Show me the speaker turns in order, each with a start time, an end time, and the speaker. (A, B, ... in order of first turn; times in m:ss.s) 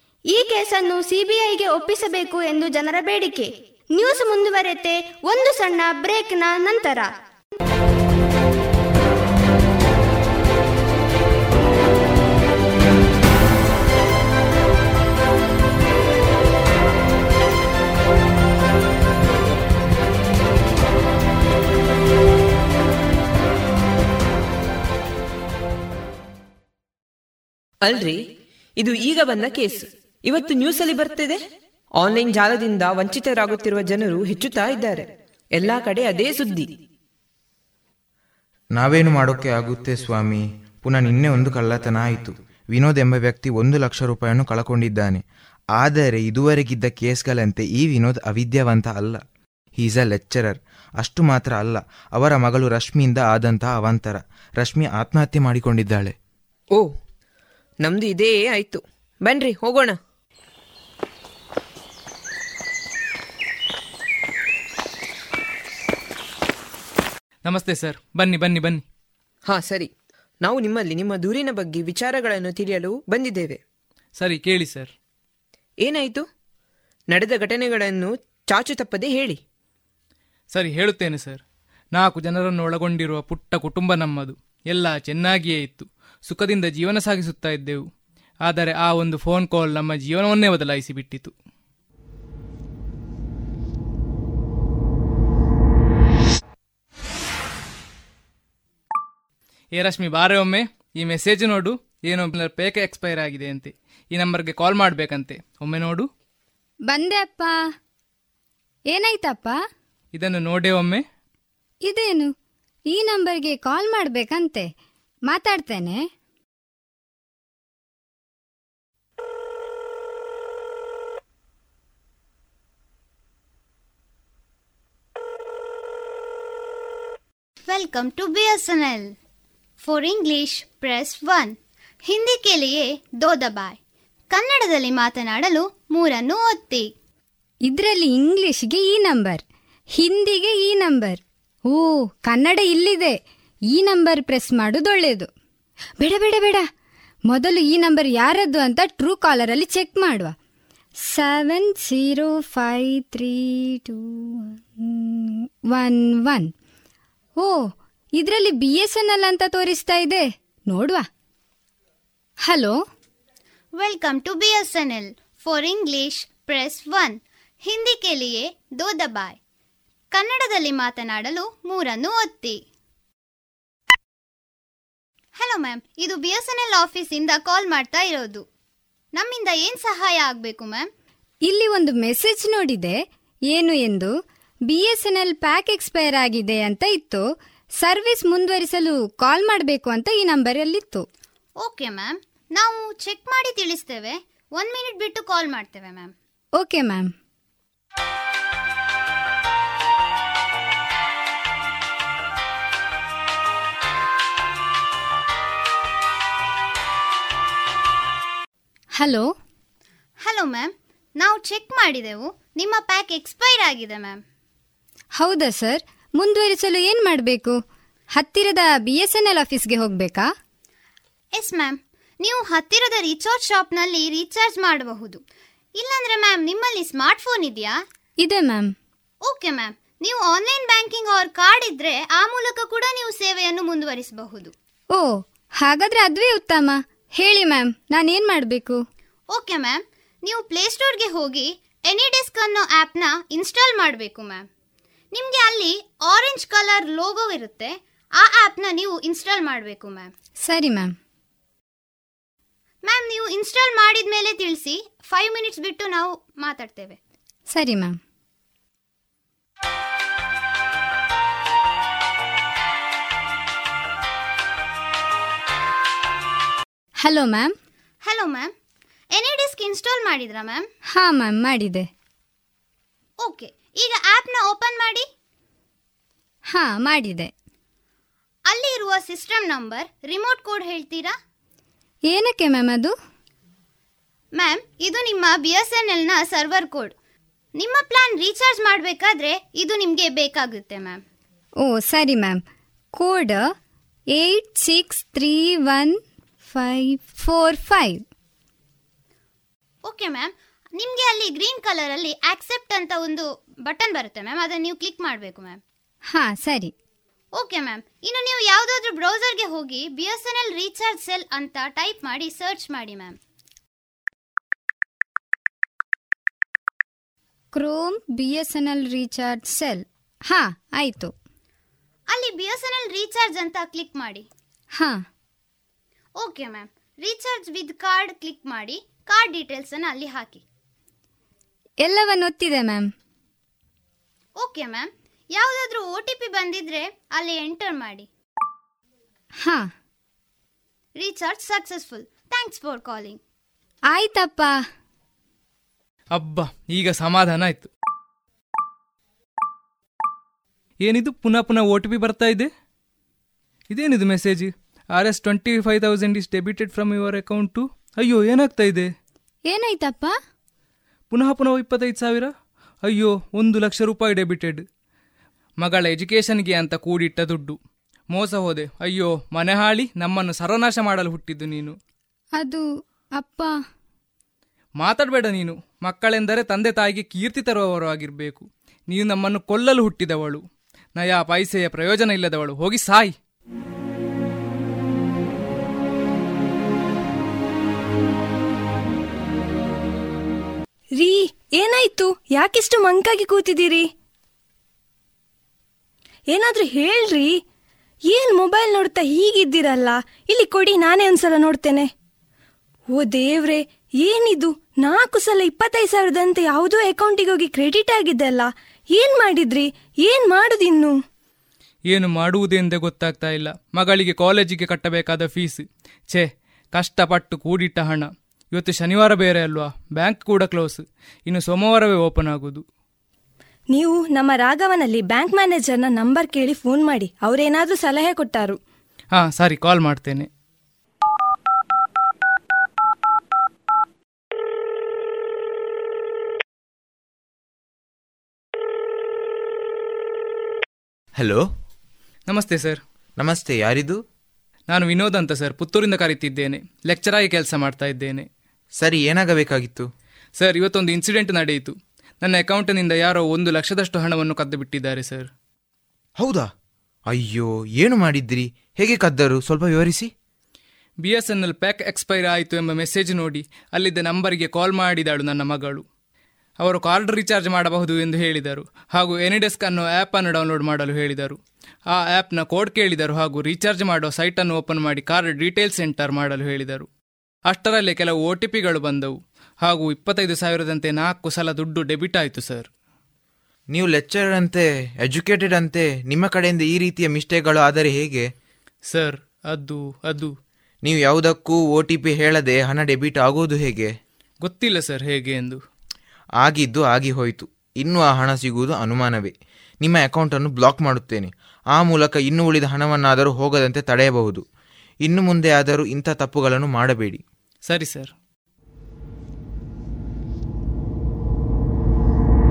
0:00.3-0:07.1 A
0:27.8-0:28.2 B
0:28.8-0:31.4 B
0:32.0-0:36.7 B
0:38.8-0:45.2 C
0:45.8-0:49.2 C
0:49.8-0:56.1 C
0:57.8-1:00.0 B
1:07.4-1:08.8 D
1:09.5-1:09.9 B
1:10.4-1:13.6 B
1:14.2-1:14.9 D
1:15.8-1:16.2 B
1:17.1-1:19.4 B
1:20.5-1:21.4 D
1:22.0-1:27.8 D
1:28.5-1:31.3 D
1:39.7-1:46.1 D
1:46.9-1:47.5 E
1:48.9-1:49.6 E
1:50.1-1:51.0 D
1:51.8-1:52.3 E
1:52.9-1:54.7 E
1:55.3-1:56.0 E
2:07.6-2:09.1 F
2:09.8-2:13.8 F
2:14.3-2:16.8 F
2:17.7-2:19.4 E
2:20.0-2:23.2 E
2:23.7-2:25.3 E
2:26.0-2:26.6 E
2:27.3-2:30.3 E
2:31.0-2:36.5 E
2:37.4-2:41.0 E
2:42.4-2:42.8 E
2:43.7-2:49.4 F
2:50.1-2:52.6 F
2:55.4-2:58.4 F
2:59.1-3:00.9 F
3:01.5-3:03.0 E
3:03.5-3:04.1 E
3:04.7-3:07.2 E
3:07.8-3:11.0 E
3:11.6-3:16.1 F
3:16.6-3:17.1 E
3:29.0-3:29.3 E
3:30.2-3:34.2 F
3:35.2-3:37.6 E
3:38.2-3:40.3 E
3:41.3-3:45.2 F
3:45.8-3:47.8 F
3:48.2-3:48.7 E
3:49.2-3:54.5 F
3:54.9-3:58.8 E
3:59.3-4:04.4 F
4:05.1-4:10.1 F
4:10.4-4:10.9 E
4:12.8-4:17.0 F
4:17.5-4:18.0 E
4:27.0-4:27.5 E
4:28.0-4:28.5 F
4:29.2-4:30.6 F
4:30.9-4:31.9 E
4:33.2-4:35.0 F
4:36.5-4:37.3 E
4:38.5-4:41.1 F
4:42.1-4:42.9 E
4:44.4-4:46.9 F
4:47.6-4:51.0 F
4:51.6-4:52.4 E
4:52.9-4:53.5 E
4:54.1-4:58.0 E
4:59.8-5:05.6 F
5:06.1-5:06.7 E
5:07.4-5:13.2 F
5:17.5-5:21.1 E
5:22.1-5:24.3 F
5:24.8-5:25.0 E
5:26.2-5:30.4 F
5:31.8-5:32.9 E
5:34.4-5:38.1 F
5:39.4-5:39.7 E
5:41.0-5:43.2 F
5:43.9-5:44.6 E
5:46.1-5:47.7 D
5:50.8-5:52.5 D
5:53.7-5:58.9 D
5:59.5-6:00.1 E
6:01.1-6:02.3 D
6:02.9-6:04.6 D
6:05.6-6:07.6 D
6:08.1-6:11.7 D
6:12.4-6:12.6 E
6:13.2-6:13.5 E
6:14.8-6:20.4 D
6:21.0-6:23.1 D
6:31.0-6:33.9 G
6:36.3-6:37.4 G
6:38.1-6:41.9 G
6:43.0-6:51.0 G
6:51.9-7:02.6 D
7:03.7-7:08.6 G
7:09.1-7:10.3 D
7:21.2-7:21.4 C
7:22.3-7:22.8 D
7:23.2-7:24.0 C
7:24.7-7:28.3 D
7:28.8-7:29.9 C
7:30.4-7:35.3 D
7:36.2-7:36.5 C
7:37.1-7:40.1 C
7:41.0-7:45.8 D
7:46.6-7:51.4 D
7:51.9-7:56.9 D
7:57.5-8:02.7 D
8:03.7-8:08.2 C
8:08.9-8:10.3 D
8:10.8-8:13.9 C
8:14.4-8:15.6 D
8:16.4-8:24.4 C
8:25.0-8:27.2 C
8:27.7-8:28.1 D